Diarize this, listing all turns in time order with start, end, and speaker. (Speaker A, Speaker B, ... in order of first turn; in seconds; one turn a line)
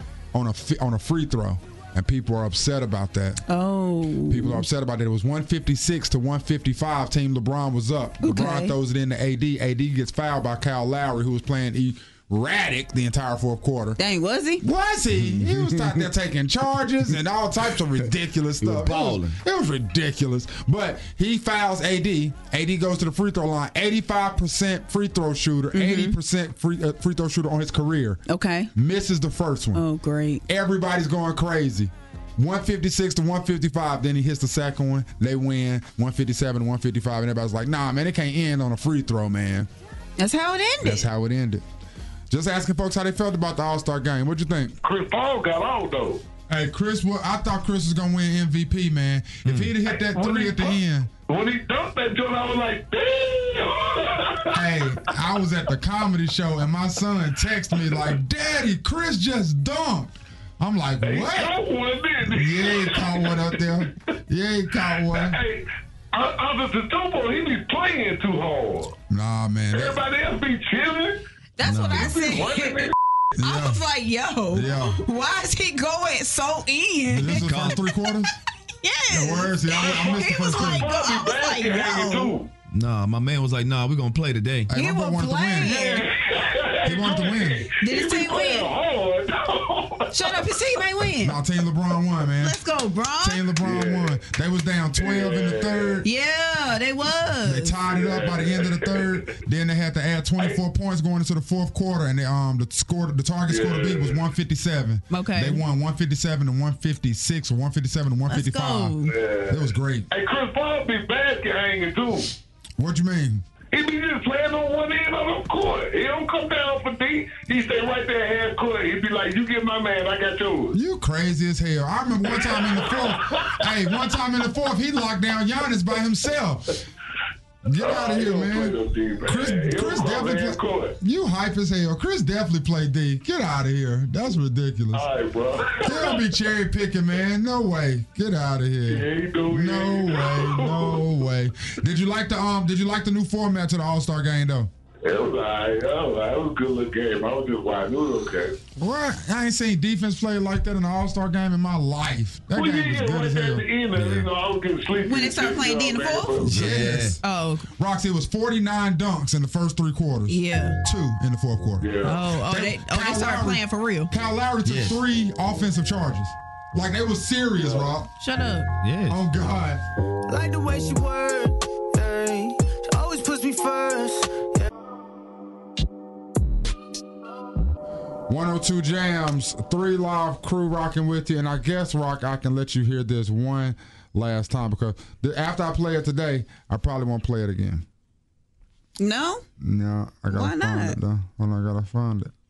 Speaker A: 0.3-3.4
Speaker B: 3.5-4.6
Speaker A: 4.3-14.0
Speaker B: 8.2-8.7
Speaker B: 14.0-14.6
Speaker A: 14.6-28.2
Speaker C: 15.2-16.0
Speaker C: 18.6-19.4
Speaker B: 25.7-26.1
Speaker B: 28.3-28.7
Speaker A: 28.7-29.8
Speaker B: 29.7-30.4
Speaker A: 30.5-39.7
Speaker B: 40.2-41.1
Speaker A: 40.8-41.6
Speaker A: 42.3-44.8
Speaker D: 44.8-46.2
Speaker A: 46.5-51.1
Speaker C: 49.4-49.7
Speaker D: 49.9-50.8
Speaker D: 51.3-54.8
Speaker A: 54.5-61.5
Speaker D: 57.8-58.1
Speaker D: 61.0-63.7
Speaker A: 62.2-65.3
Speaker D: 65.0-69.0
Speaker A: 69.1-70.0
Speaker D: 69.7-71.2
Speaker B: 71.6-72.8
Speaker A: 71.6-72.1
Speaker D: 71.9-72.9
Speaker A: 73.3-73.8
Speaker B: 73.4-77.6
Speaker A: 74.5-75.0
Speaker A: 77.1-78.3
Speaker C: 77.2-77.8
Speaker B: 78.8-82.3
Speaker A: 79.1-80.9
Speaker D: 79.7-82.5
Speaker C: 82.7-84.7
Speaker A: 84.7-86.0
Speaker B: 84.7-86.0
Speaker D: 85.6-90.5
Speaker A: 86.8-87.7
Speaker B: 87.8-88.7
Speaker B: 90.1-91.4
Speaker A: 91.2-92.6
Speaker B: 92.4-93.4
Speaker A: 93.2-96.0
Speaker D: 93.6-94.2
Speaker D: 95.0-96.0
Speaker B: 96.0-97.8
Speaker A: 97.4-109.0
Speaker D: 97.8-99.2
Speaker D: 103.5-104.2
Speaker B: 105.1-105.6
Speaker B: 108.3-109.1
Speaker D: 109.0-112.3
Speaker A: 109.5-110.1
Speaker A: 112.8-113.4
Speaker D: 113.7-120.7
Speaker A: 120.7-126.8
Speaker D: 122.3-124.0
Speaker A: 127.6-135.0
Speaker D: 127.8-130.9
Speaker D: 134.9-136.3
Speaker A: 135.8-144.7
Speaker D: 138.9-141.1
Speaker D: 145.0-148.6
Speaker A: 148.8-153.6
Speaker D: 152.5-156.6
Speaker C: 153.9-154.2
Speaker B: 155.0-156.7
Speaker A: 156.4-157.2
Speaker C: 156.5-157.2
Speaker B: 157.2-157.7
Speaker A: 157.8-168.1
Speaker B: 160.3-160.8
Speaker D: 161.8-162.2
Speaker B: 162.0-164.1
Speaker C: 164.6-165.0
Speaker B: 168.2-168.7
Speaker C: 168.8-169.2
Speaker A: 169.1-169.8
Speaker E: 170.3-174.7
Speaker A: 178.3-187.8
Speaker B: 189.0-189.4
Speaker A: 189.6-192.3
Speaker B: 190.3-191.0